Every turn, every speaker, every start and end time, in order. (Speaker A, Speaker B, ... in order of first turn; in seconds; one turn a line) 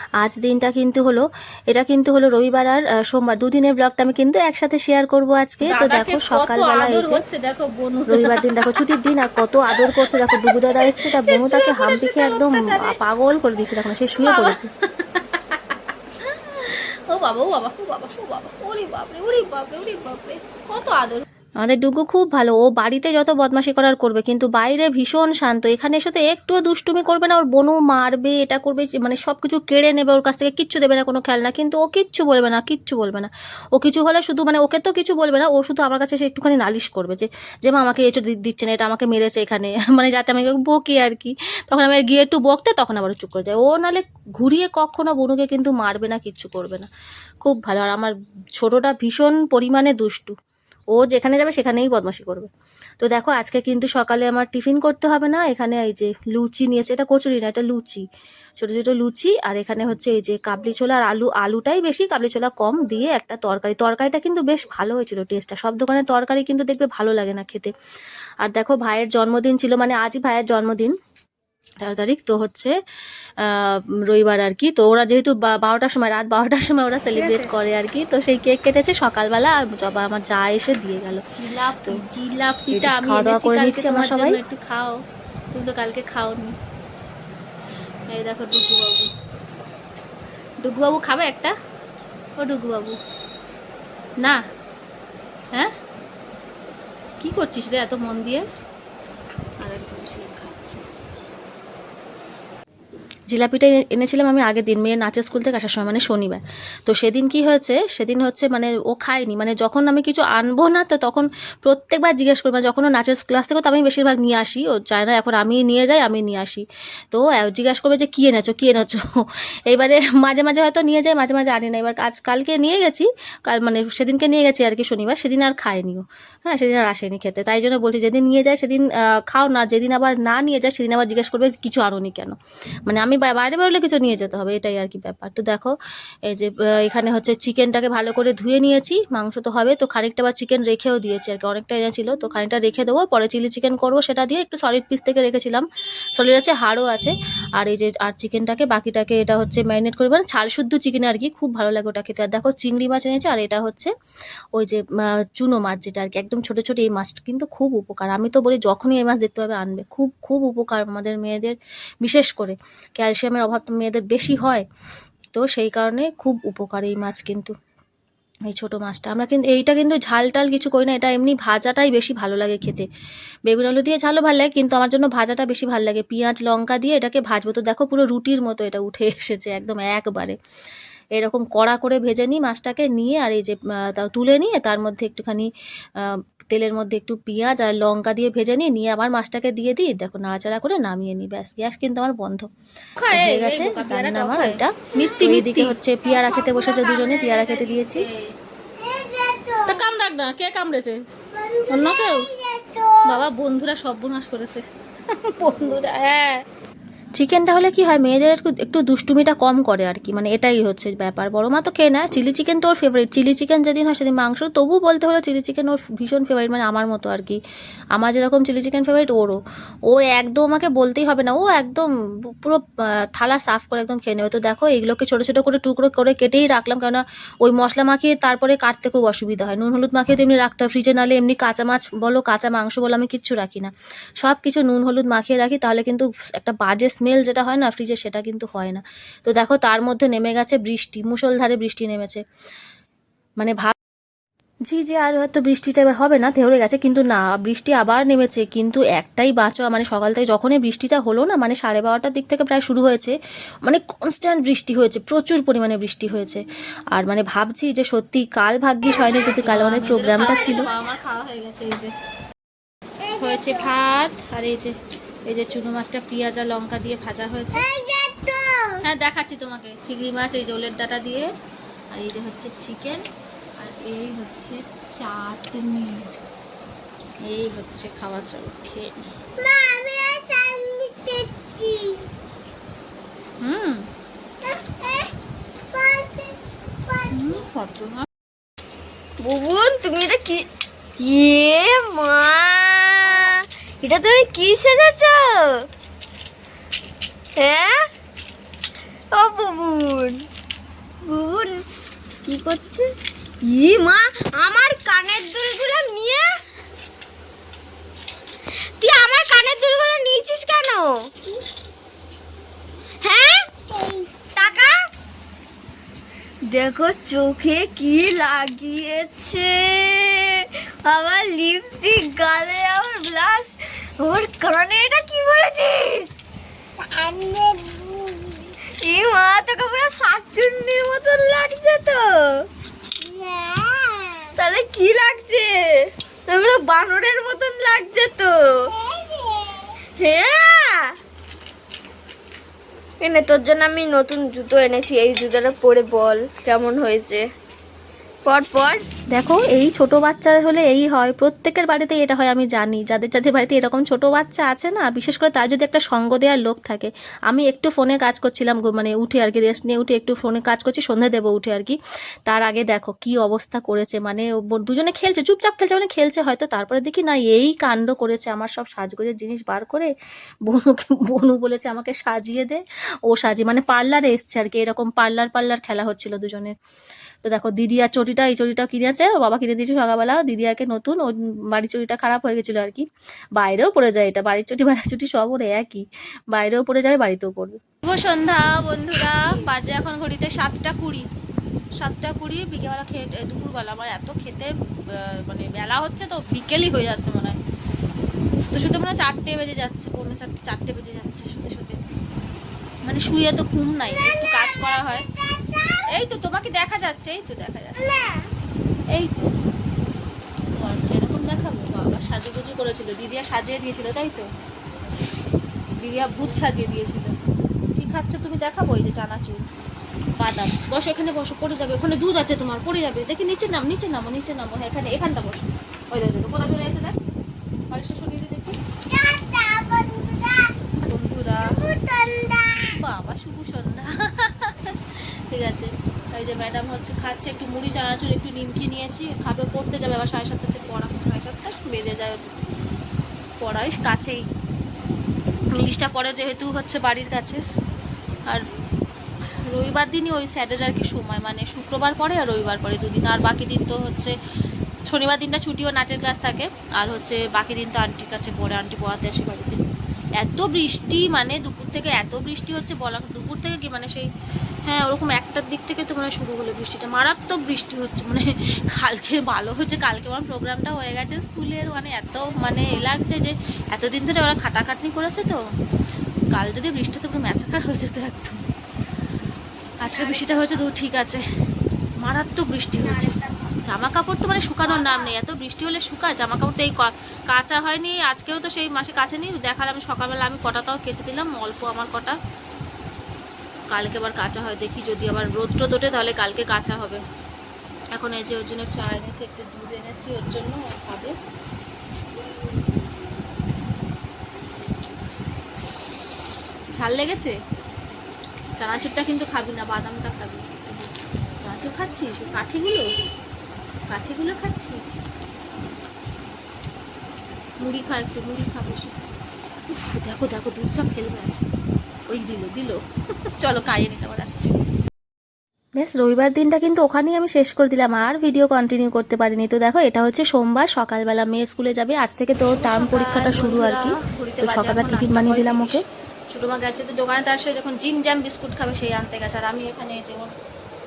Speaker A: 0.2-7.2
Speaker B: 5.6-8.8
Speaker A: 8.1-14.7
Speaker B: 9.7-13.0
Speaker B: 14.2-21.2
Speaker A: 21.6-46.9
Speaker A: 47.4-50.3
Speaker A: 50.9-52.5
Speaker A: 53.0-58.0
Speaker A: 58.6-67.7
Speaker A: 68.4-70.9
Speaker A: 71.8-72.7
Speaker A: 73.5-81.2
Speaker B: 77.1-77.5
Speaker B: 81.4-85.0
Speaker A: 82.7-84.4
Speaker B: 85.5-86.5
Speaker B: 88.1-89.1
Speaker B: 90.6-91.5
Speaker B: 92.4-92.9
Speaker B: 97.2-98.4
Speaker B: 99.6-100.8
Speaker A: 103.3-119.1
Speaker A: 119.7-132.3
Speaker A: 132.9-135.7
Speaker A: 136.3-153.9
Speaker A: 154.5-154.8
Speaker A: 155.3-164.6
Speaker A: 165.3-167.5
Speaker A: 168.5-172.9
Speaker A: 173.4-180.3
Speaker A: 181.2-185.5
Speaker A: 186.5-192.5
Speaker B: 193.0-198.3
Speaker A: 193.1-198.1
Speaker B: 199.6-201.0
Speaker B: 201.7-202.3
Speaker B: 203.0-204.6
Speaker A: 203.4-203.8
Speaker B: 205.2-206.4
Speaker A: 207.1-217.4
Speaker A: 217.9-219.4
Speaker A: 219.9-222.6
Speaker A: 223.1-242.2
Speaker A: 243.4-243.7
Speaker A: 244.7-256.4
Speaker A: 256.9-260.7
Speaker B: 258.9-261.9
Speaker B: 263.1-267.7
Speaker B: 268.8-271.3
Speaker B: 271.9-273.0
Speaker B: 273.6-276.0
Speaker B: 277.2-279.1
Speaker C: 279.7-281.1
Speaker C: 281.6-282.0
Speaker B: 283.4-283.9
Speaker B: 287.1-288.1
Speaker C: 289.2-290.5
Speaker C: 291.0-295.6
Speaker C: 297.4-297.8
Speaker C: 299.1-300.2
Speaker C: 301.0-301.6
Speaker C: 302.3-302.9
Speaker C: 303.4-306.3
Speaker C: 308.8-310.9
Speaker C: 313.0-314.8
Speaker C: 316.5-326.1
Speaker C: 326.8-332.4
Speaker C: 333.0-339.3
Speaker C: 340.0-340.9
Speaker C: 343.0-347.2
Speaker C: 348.2-348.8
Speaker A: 349.1-361.8
Speaker A: 362.3-369.9
Speaker A: 370.5-376.5
Speaker A: 377.2-387.6
Speaker B: 387.8-391.1
Speaker B: 391.8-397.4
Speaker B: 398.3-401.8
Speaker B: 402.8-405.1
Speaker B: 405.9-408.2
Speaker B: 408.9-409.3
Speaker B: 410.5-414.3
Speaker B: 415.8-417.1
Speaker B: 417.8-419.4
Speaker B: 420.2-426.9
Speaker B: 427.7-428.6
Speaker B: 430.8-442.4
Speaker B: 443.4-444.2
Speaker B: 445.5-447.4
Speaker B: 449.4-454.1
Speaker B: 454.9-459.6
Speaker B: 460.2-464.1
Speaker B: 464.6-475.4
Speaker B: 476.3-478.4
Speaker B: 479.8-481.2
Speaker B: 482.0-492.2
Speaker B: 493.7-497.0
Speaker B: 497.9-501.1
Speaker B: 506.7-507.3
Speaker B: 508.6-512.9
Speaker B: 513.9-515.0
Speaker B: 517.6-519.0
Speaker B: 519.7-521.4
Speaker B: 522.1-522.8
Speaker B: 523.4-524.5
Speaker A: 525.8-535.8
Speaker B: 532.5-540.3